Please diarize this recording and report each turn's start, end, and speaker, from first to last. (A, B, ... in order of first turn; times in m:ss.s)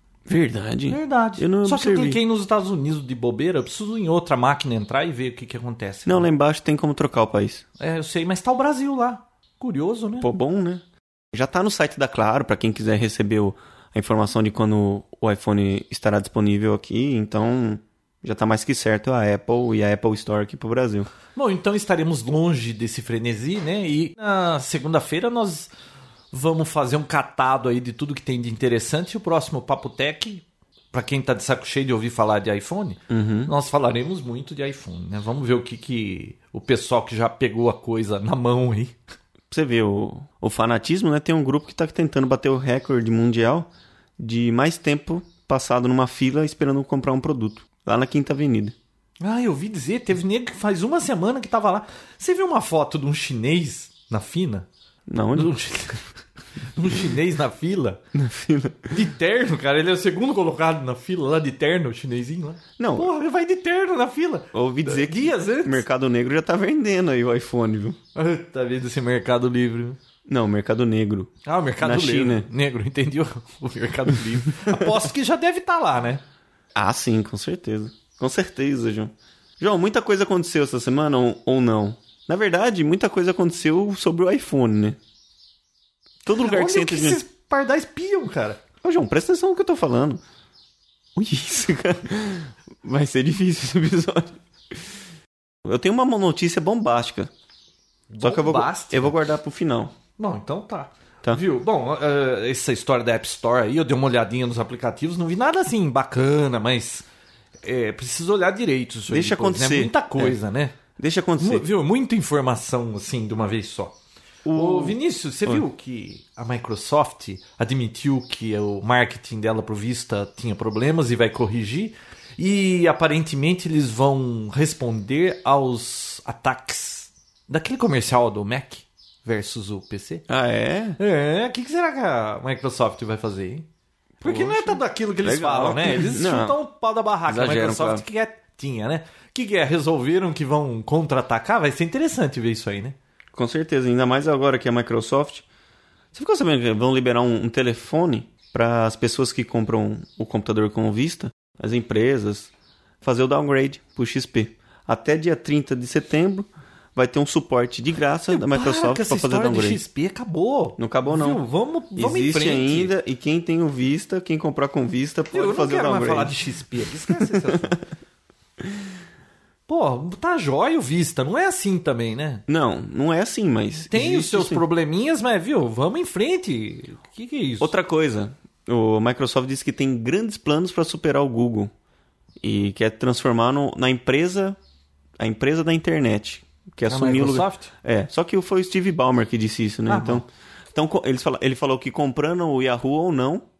0:00.3-0:02.2 A
0:00.9-0:06.3 B
0:06.0-0:07.6 A
0:07.8-0:10.3 B
0:10.2-0:21.1 A
0:21.3-0:25.7 B
0:26.3-0:39.0 B
0:33.1-0:33.5 A
0:39.5-0:48.7 A
0:49.2-0:54.7 B
0:55.1-0:55.5 A
0:55.3-0:56.2 B
0:56.7-0:58.0 B
0:58.1-0:58.9 A
0:58.9-1:05.8 B
1:02.8-1:03.1 A
1:04.5-1:08.0 A
1:08.1-1:10.0 B
1:10.3-1:12.5 A
1:11.4-1:16.2 B
1:16.8-1:25.0 A
1:26.2-1:27.2 A
1:26.4-1:28.6 B
1:28.8-1:30.2 A
1:31.2-1:34.9 A
1:35.6-1:37.3 A
1:38.1-1:39.2 B
1:38.2-1:39.9 A
1:40.2-1:47.1 B
1:47.6-1:50.8 B
1:49.1-1:50.4 A
1:51.0-1:51.6 A
1:51.4-1:53.9 B
1:54.4-1:55.6 A
1:54.5-2:10.2 B
2:10.3-2:11.0 A
2:11.0-2:13.6 B
2:14.2-2:23.0 B
2:14.2-2:16.6 A
2:17.3-2:18.0 A
2:23.3-2:25.4 A
2:26.1-2:32.5 A
2:33.0-2:39.8 A
2:38.3-2:42.9 B
2:40.8-2:41.4 A
2:41.9-2:46.3 A
2:45.3-2:47.8 B
2:47.2-2:47.8 A
2:49.7-2:52.4 B
2:52.5-2:54.6 A
2:53.9-2:57.7 B
2:57.6-3:01.7 A
3:02.4-3:04.6 A
3:05.2-3:13.4 A
3:06.9-3:07.7 B
3:09.9-3:10.2 B